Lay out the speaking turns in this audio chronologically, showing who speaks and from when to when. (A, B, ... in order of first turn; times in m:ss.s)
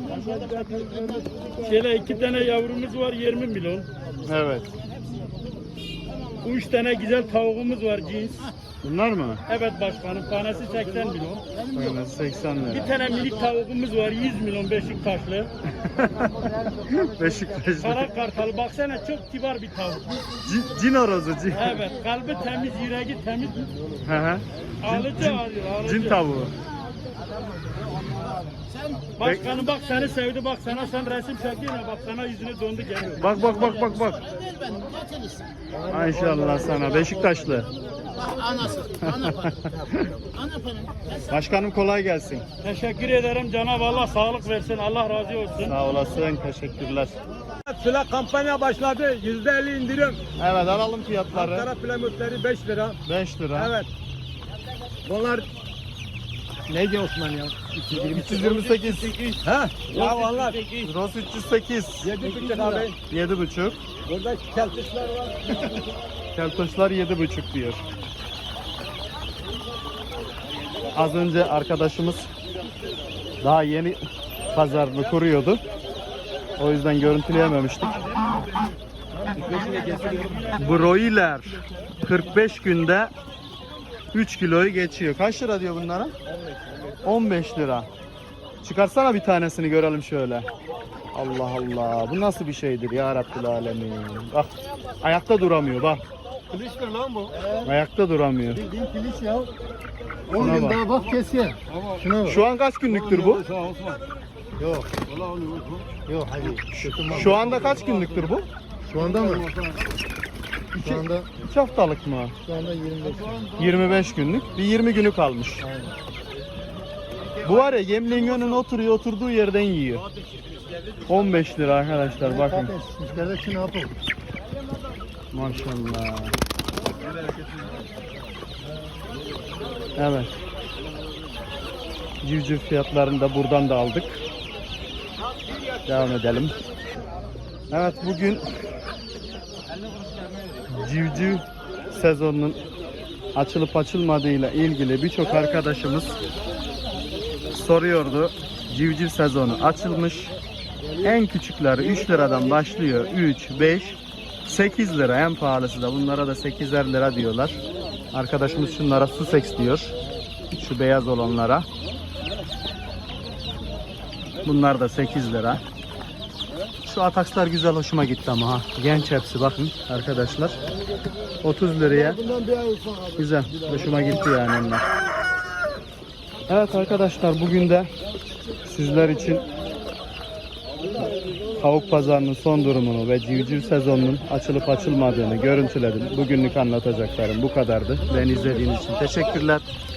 0:00.1-0:03.9 A
0:04.3-0:04.7 B
0:06.4-0:08.5 A
0:08.8-0:09.4 B
0:09.5-0:11.4 A
0:11.7-0:12.9 B
0:12.7-0:15.5 A
0:15.8-0:18.1 B
0:17.8-0:20.2 A
0:20.4-0:21.8 B
0:21.5-0:23.7 A
0:24.0-0:26.5 B
0:24.8-0:26.2 A
0:29.2-0:33.4 A
0:29.2-0:29.6 B
0:33.2-0:34.3 B
0:35.9-0:37.7 B
0:39.0-0:40.1 B
0:41.2-0:42.4 B
0:42.6-0:45.7 A
0:45.6-0:47.2 B
0:47.7-0:50.2 C
0:50.4-0:51.7 B
0:51.4-0:53.0 C
0:53.0-0:53.7 B
0:55.1-0:55.4 C
0:56.7-0:58.3 C
0:57.9-0:59.2 B
0:58.0-0:59.1 A
0:59.3-1:00.8 C
0:59.9-1:00.8 A
1:00.8-1:02.2 B
1:02.1-1:02.9 C
1:02.2-1:02.9 D
1:02.2-1:02.6 A
1:03.1-1:03.8 B
1:04.1-1:05.6 C
1:06.4-1:07.8 B
1:10.9-1:12.3 B
1:13.4-1:14.0 B
1:14.5-1:15.6 B
1:16.6-1:18.1 B
1:19.3-1:20.6 C
1:19.4-1:20.6 A
1:20.5-1:23.1 B
1:24.1-1:26.1 B
1:27.0-1:27.9 B
1:28.6-1:30.5 B
1:31.1-1:36.0 B
1:36.5-1:37.4 C
1:37.6-1:38.6 B
1:38.7-1:39.3 C
1:39.0-1:39.5 D
1:40.3-1:42.2 D
1:40.3-1:40.9 B
1:42.2-1:43.5 B
1:43.5-1:44.0 C
1:44.6-1:44.9 D
1:46.1-1:47.3 D
1:46.7-1:48.5 B
1:48.9-1:49.5 D
1:49.1-1:49.4 C
1:50.8-1:52.4 B
1:50.8-1:51.3 D
1:52.5-1:53.4 D
1:53.6-1:55.6 B
1:57.4-2:00.0 B
2:01.1-2:02.7 B
2:02.6-2:03.9 D
2:05.3-2:06.4 B
2:10.0-2:10.3 B
2:12.2-2:14.2 B
2:15.9-2:16.6 B
2:17.7-2:18.4 B
2:20.7-2:22.6 B
2:23.4-2:26.2 B
2:27.5-2:30.3 B
2:31.0-2:37.6 B
2:38.1-2:39.9 B
2:40.5-2:41.7 B
2:44.4-2:45.6 B
2:46.8-2:50.6 B
2:51.4-2:52.2 B
2:52.4-2:53.0 D
2:53.2-2:54.9 B
2:56.5-2:57.9 B
2:58.6-2:59.4 B
3:01.6-3:09.6 B